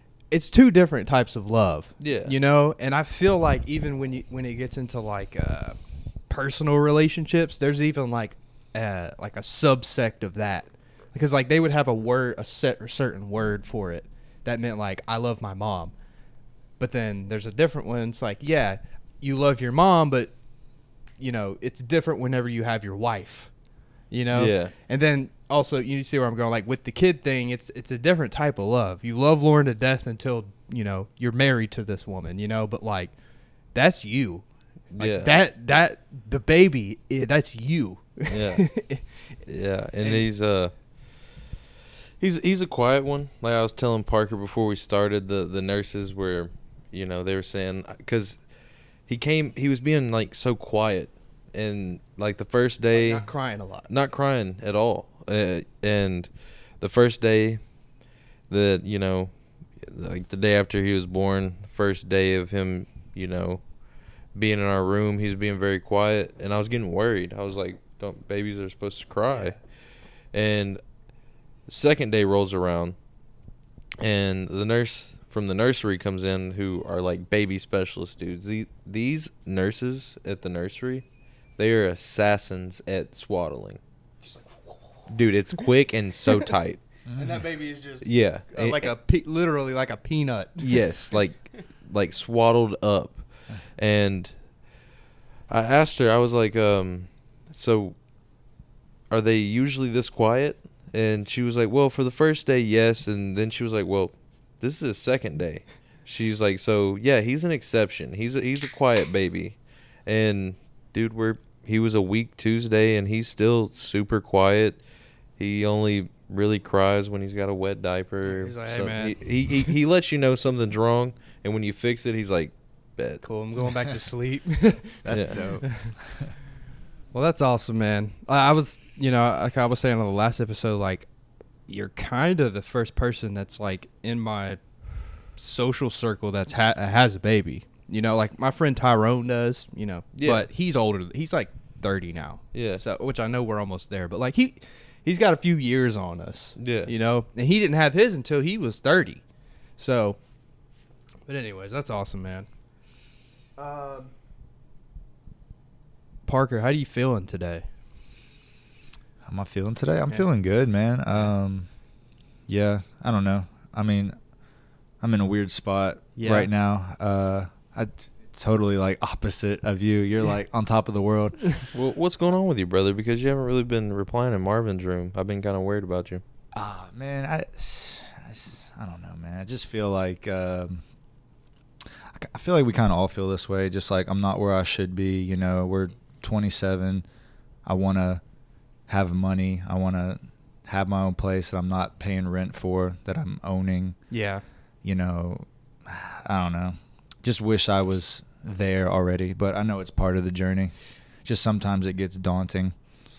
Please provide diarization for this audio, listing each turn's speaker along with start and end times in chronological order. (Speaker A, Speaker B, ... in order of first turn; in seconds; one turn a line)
Speaker A: 0.3-5.8
Speaker B: 2.0-2.3
Speaker A: 6.3-15.9
Speaker A: 16.8-20.3
Speaker A: 21.2-23.5
Speaker A: 24.1-33.1
Speaker B: 24.3-24.7
Speaker A: 33.7-34.5
Speaker B: 34.9-35.3
Speaker A: 35.0-39.0
Speaker B: 38.3-38.6
Speaker B: 39.5-40.7
Speaker A: 40.0-40.2
Speaker B: 42.2-48.4
Speaker B: 49.1-53.3
Speaker A: 52.9-53.9
Speaker B: 53.9-57.6
Speaker B: 58.5-63.6
Speaker B: 64.3-69.5
Speaker A: 69.3-69.5
Speaker B: 70.3-70.8
Speaker B: 71.7-73.0
Speaker B: 74.0-81.0
Speaker B: 81.6-83.8
Speaker A: 84.2-85.6
Speaker B: 85.1-86.8
Speaker C: 87.1-87.4
Speaker A: 87.1-90.8
Speaker B: 88.0-88.9
Speaker B: 90.6-93.2
Speaker B: 93.8-94.3
Speaker B: 95.5-97.9
Speaker B: 99.1-114.8
Speaker B: 115.4-123.2
Speaker A: 118.2-119.6
Speaker A: 123.2-125.9
Speaker C: 125.0-126.3
Speaker B: 125.1-125.4
Speaker A: 127.1-131.1
Speaker A: 131.7-134.6
Speaker A: 135.4-149.2
Speaker B: 140.1-140.5
Speaker B: 142.5-142.8
Speaker B: 146.6-146.9
Speaker A: 149.8-150.2
Speaker A: 151.3-152.5
Speaker A: 153.6-154.1
Speaker A: 156.2-157.6
Speaker C: 159.2-161.7
Speaker C: 162.5-164.2
Speaker C: 165.0-171.6
Speaker A: 166.2-166.5
Speaker B: 171.7-176.2
Speaker C: 176.5-180.8
Speaker C: 181.8-187.0
Speaker C: 187.7-188.2
Speaker C: 188.9-193.9
Speaker A: 194.1-194.4
Speaker C: 194.8-202.7